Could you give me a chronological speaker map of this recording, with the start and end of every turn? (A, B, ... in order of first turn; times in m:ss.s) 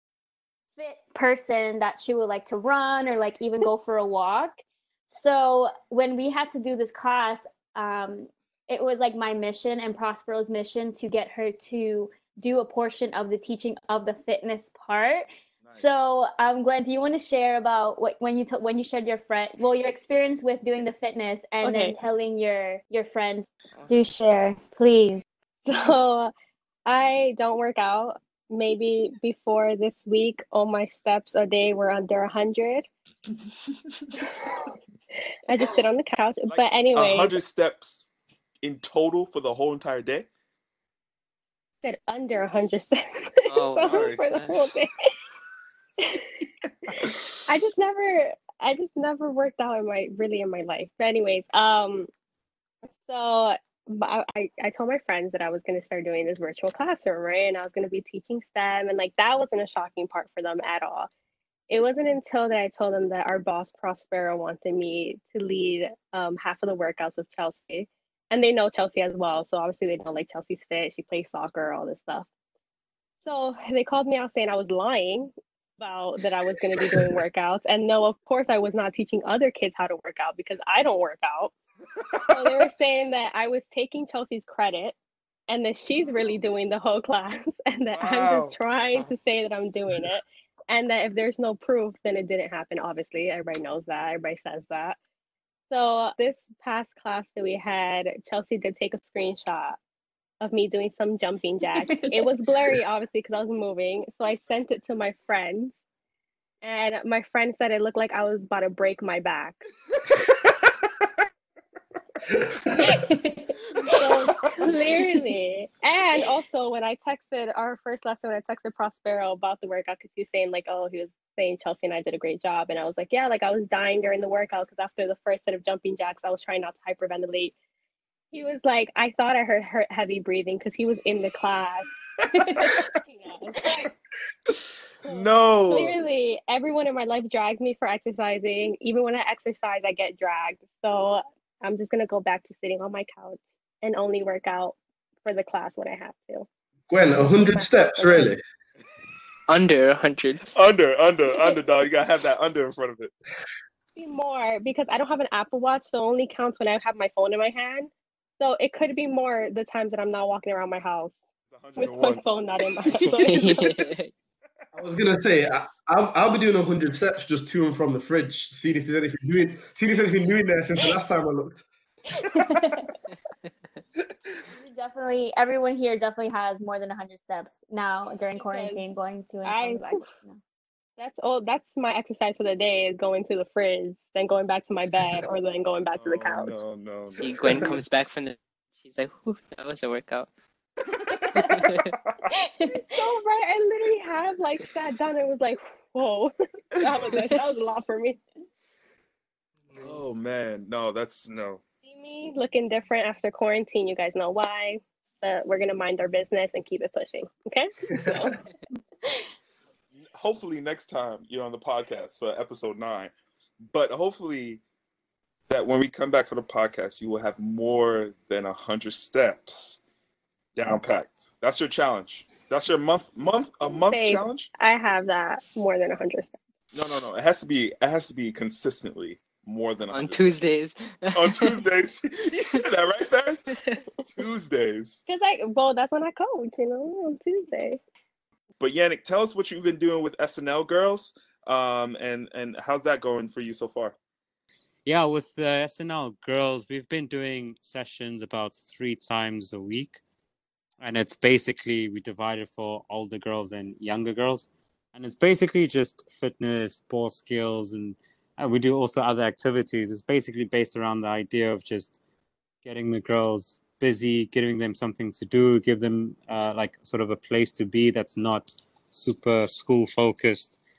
0:00.8-0:25.2 A
0:15.6-0:16.0 B
0:21.6-0:22.0 C
0:25.6-0:26.3 C
0:26.8-0:32.8 C
0:33.3-0:34.1 B
0:34.3-0:34.6 C
0:35.4-0:37.4 C
0:36.4-0:38.1 B
0:38.6-0:40.3 B
0:41.8-0:44.9 C
0:43.5-0:44.6 D
0:46.0-0:46.2 C
0:46.6-0:47.4 B
0:47.0-0:52.1 C
0:52.8-1:01.1 C
1:01.7-1:12.2 C
1:13.2-1:21.5 C
1:22.0-1:22.6 B
1:22.3-1:24.9 C
1:25.5-1:35.0 C
1:27.9-1:28.5 B
1:35.7-1:39.8 C
1:40.4-1:45.7 C
1:41.8-1:42.3 A
1:46.6-1:49.6 C
1:52.3-1:52.7 E
1:52.8-1:55.3 A
1:53.9-2:07.5 C
2:08.3-2:11.9 C
2:12.2-2:12.7 B
2:12.6-2:13.9 C
2:14.5-2:16.0 B
2:15.0-2:26.5 C
2:26.9-2:28.4 E
2:29.5-2:30.5 D
2:30.5-2:33.1 B
2:33.9-2:41.2 C
2:41.5-2:43.8 B
2:41.8-2:43.7 C
2:43.1-2:44.1 D
2:44.7-2:51.6 E
2:52.1-2:52.9 A
2:54.5-3:00.4 A
2:58.1-2:58.8 C
2:59.4-3:00.1 C
3:01.0-3:06.6 C
3:05.9-3:07.6 B
3:07.2-3:10.3 D
3:11.2-3:11.4 A
3:11.3-3:11.9 D
3:12.4-3:12.9 A
3:12.6-3:18.2 C
3:19.7-3:20.0 E
3:19.8-3:21.6 B
3:21.8-3:28.4 C
3:28.0-3:28.4 E
3:29.9-3:34.6 B
3:35.5-3:39.8 B
3:40.6-3:44.5 B
3:43.6-3:46.3 C
3:46.7-3:50.4 B
3:49.9-3:51.5 D
3:51.1-3:53.5 B
3:54.0-3:55.0 B
3:55.1-3:57.8 C
3:58.6-4:04.0 B
4:04.8-4:10.0 F
4:10.8-4:22.0 F
4:22.6-4:30.6 F